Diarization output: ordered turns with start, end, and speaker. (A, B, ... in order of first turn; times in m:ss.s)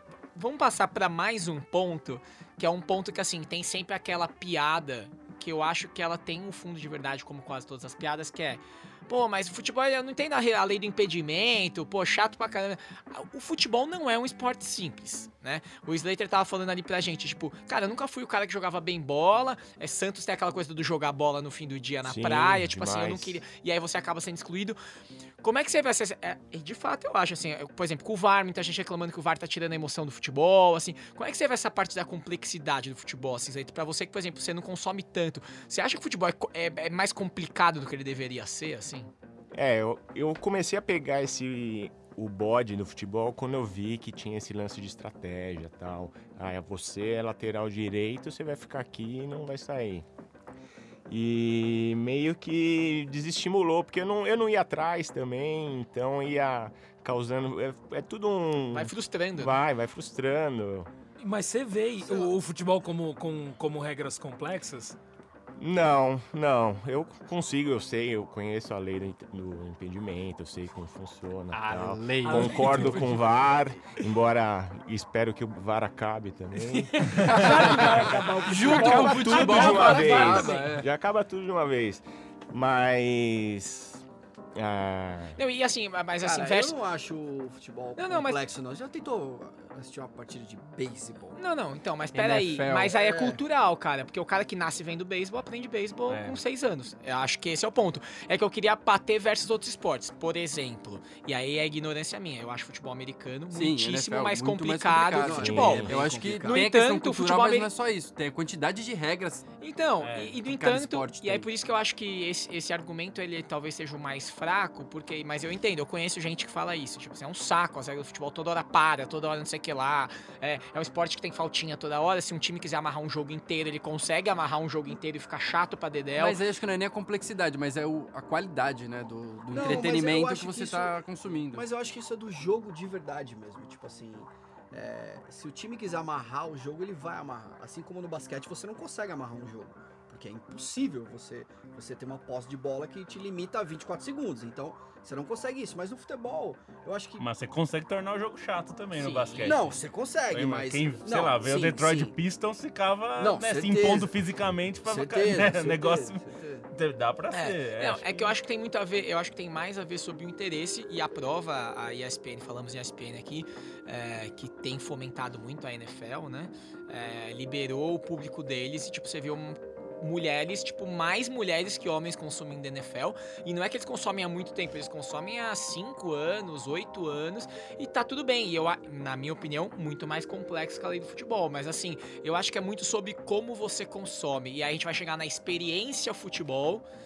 0:00.4-0:24.8 A
0:22.0-0:23.4 B
0:25.4-0:39.1 A
0:39.5-0:50.1 B
0:51.1-1:00.9 B
0:58.7-0:59.6 A
1:01.2-1:05.0 C
1:02.0-1:02.4 D
1:05.6-1:24.0 B
1:11.5-1:13.2 E
1:12.2-1:13.2 C
1:16.6-1:20.8 C
1:17.2-1:20.9 E
1:18.6-1:19.2 D
1:24.6-1:25.4 B
1:25.4-1:26.8 A
1:26.2-1:31.4 D
1:28.0-1:28.4 A
1:31.4-1:45.8 A
1:32.1-1:33.0 E
1:32.9-1:33.4 D
1:36.1-1:36.4 F
1:43.5-1:49.5 E
1:45.2-1:46.7 D
1:45.4-1:46.0 B
1:46.4-1:47.7 A
1:49.6-2:06.4 A
1:50.0-1:50.4 F
1:50.4-1:51.5 E
2:06.2-2:11.7 E
2:09.5-2:27.3 D
2:27.2-2:38.3 F
2:29.0-2:29.6 A
2:29.4-2:32.2 D
2:33.2-2:34.1 D
2:34.8-2:36.7 D
2:37.3-3:06.8 A